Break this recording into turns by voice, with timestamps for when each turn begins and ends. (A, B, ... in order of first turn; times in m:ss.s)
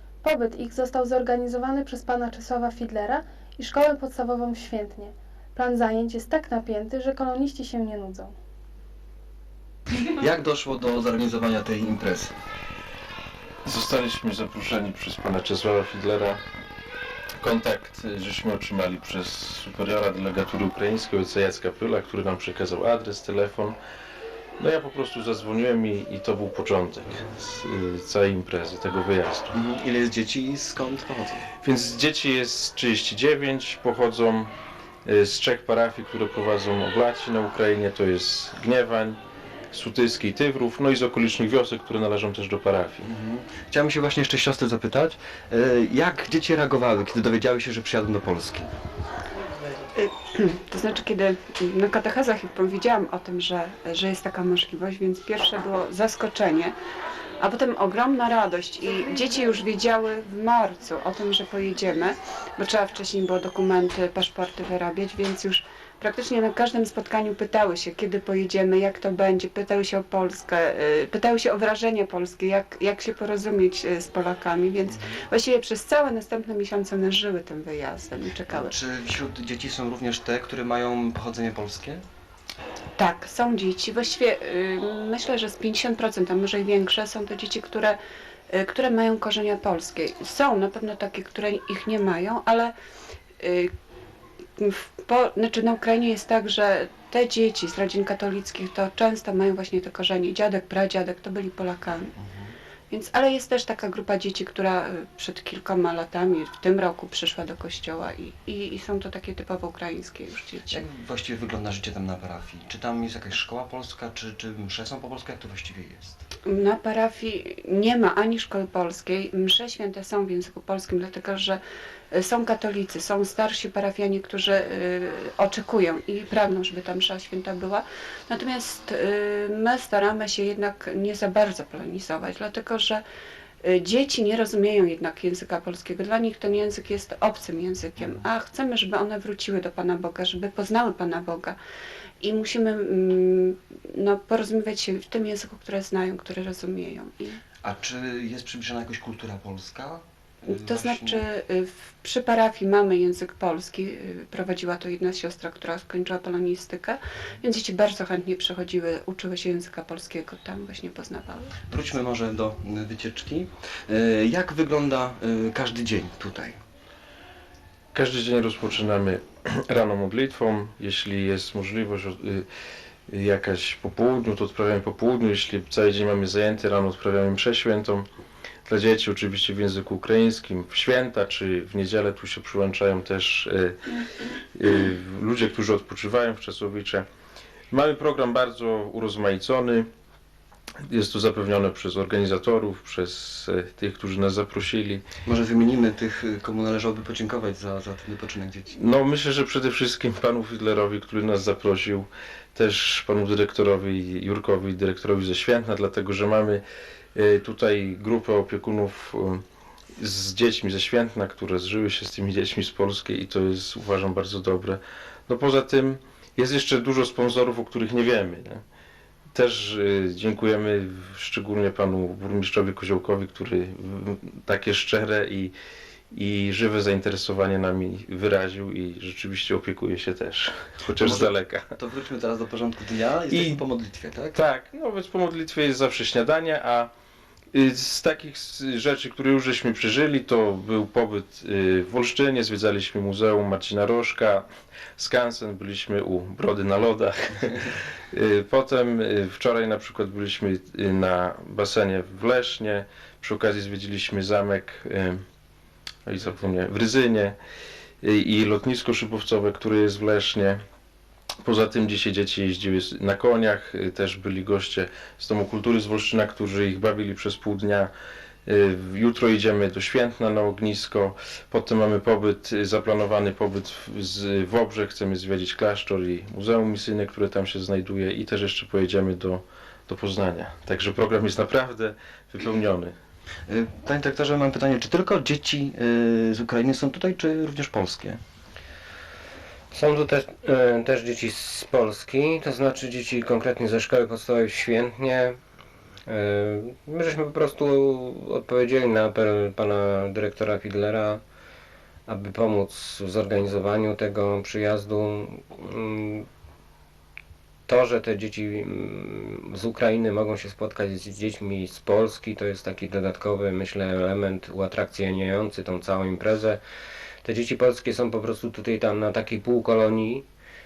0:00.2-0:08.3 A
0:10.0-0:12.3 B
0:13.6-0:16.4 C
0:17.4-0:23.8 C
0:24.6-0:29.5 C
0:29.5-0:31.5 B
0:31.6-0:34.5 C
0:35.0-0:39.2 C
0:39.7-0:43.0 C
0:43.0-0:48.7 B
0:49.9-0:56.7 D
0:57.4-1:18.8 D
1:14.8-1:15.2 B
1:18.5-1:22.0 B
1:23.0-1:28.0 D
1:28.5-1:32.7 D
1:33.4-1:33.7 D
1:34.6-1:42.1 D
1:42.2-1:42.6 B
1:42.9-1:50.8 D
1:50.7-1:56.2 B
1:56.4-2:01.6 D
2:02.1-2:13.0 D
2:13.6-2:21.6 D
2:22.2-2:27.4 D
2:27.6-2:31.2 B
2:30.5-2:41.5 D
2:41.7-2:46.6 B
2:47.9-2:52.4 C
2:53.1-2:58.1 C
2:58.7-3:03.8 C
3:04.5-3:07.1 C
3:07.7-3:09.9 C
3:10.9-3:15.0 C
3:15.2-3:18.7 B
3:18.8-3:26.6 C
3:27.2-3:29.4 C
3:30.0-3:38.6 C
3:39.3-3:45.5 C
3:46.1-3:51.6 C
3:51.0-3:54.4 B
3:54.4-3:56.9 C
3:57.5-4:04.4 C
4:05.0-4:07.4 C
4:08.1-4:15.2 C
4:16.1-4:17.4 C
4:18.0-4:20.6 C
4:21.4-4:27.9 C
4:28.5-4:43.0 C
4:43.5-4:48.2 B
4:49.7-4:55.4 E
4:56.1-5:01.2 E
5:02.1-5:06.3 E
5:07.7-5:16.6 E
5:17.2-5:20.2 E